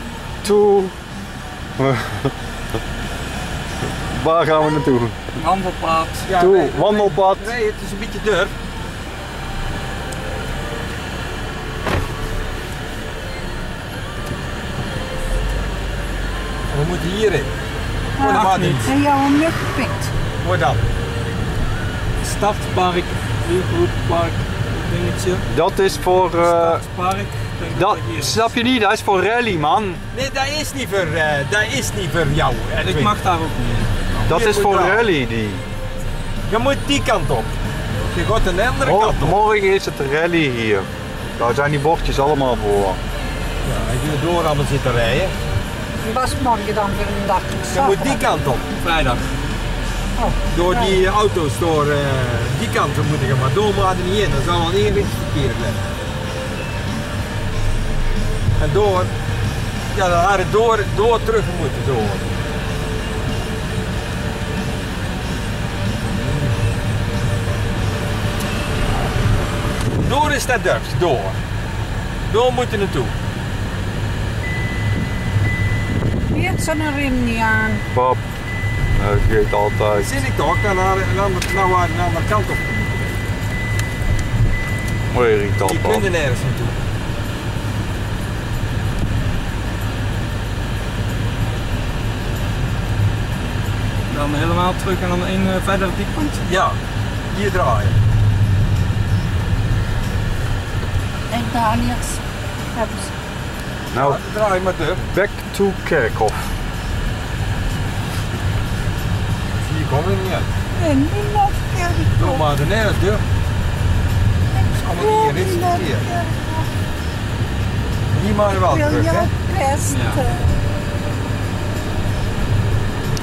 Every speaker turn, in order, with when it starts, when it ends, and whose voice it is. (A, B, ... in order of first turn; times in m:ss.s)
0:00.4-0:01.0 A
0:01.8-0:02.3 A
0:04.1-0:05.3 A
0:05.4-0:06.3 B
0:06.2-0:08.6 C
0:06.4-0:07.5 A
0:16.7-0:17.5 C
0:18.2-0:20.1 D
0:18.2-0:19.0 C
0:18.3-0:19.0 B
0:20.4-0:20.8 C
0:22.2-0:25.4 B
0:25.5-0:26.8 A
0:26.4-0:28.5 B
0:27.7-0:30.0 A
0:30.1-0:33.2 C
0:32.8-0:34.2 B
0:34.3-0:35.0 C
0:34.3-0:35.6 A
0:36.5-0:37.5 C
0:38.1-0:39.4 C
0:38.8-0:43.0 A
0:43.6-0:45.3 C
0:46.0-0:48.2 D
0:47.7-0:48.7 C
0:48.8-0:49.3 B
0:50.2-0:51.0 D
0:50.5-0:55.8 C
0:58.6-0:59.1 C
0:59.9-1:02.3 C
1:10.0-1:11.4 C
1:12.3-1:13.1 C
1:16.3-1:17.8 D
1:17.9-1:18.2 A
1:19.0-1:20.1 A
1:19.9-1:23.1 C
1:25.1-1:26.1 A
1:25.6-1:26.8 C
1:34.1-1:36.4 B
1:36.4-1:36.8 C
1:37.3-1:38.0 C
1:41.3-1:42.2 D
1:42.8-1:43.1 D
1:43.9-1:44.2 A
1:44.0-1:45.1 C
1:45.1-1:46.5 A
1:49.6-1:50.5 C
1:50.8-1:52.4 D
1:52.2-1:53.2 C
1:54.5-1:56.7 D
1:54.8-1:56.1 C
1:58.1-1:59.3 C
1:58.7-2:00.6 D
1:59.9-2:00.2 B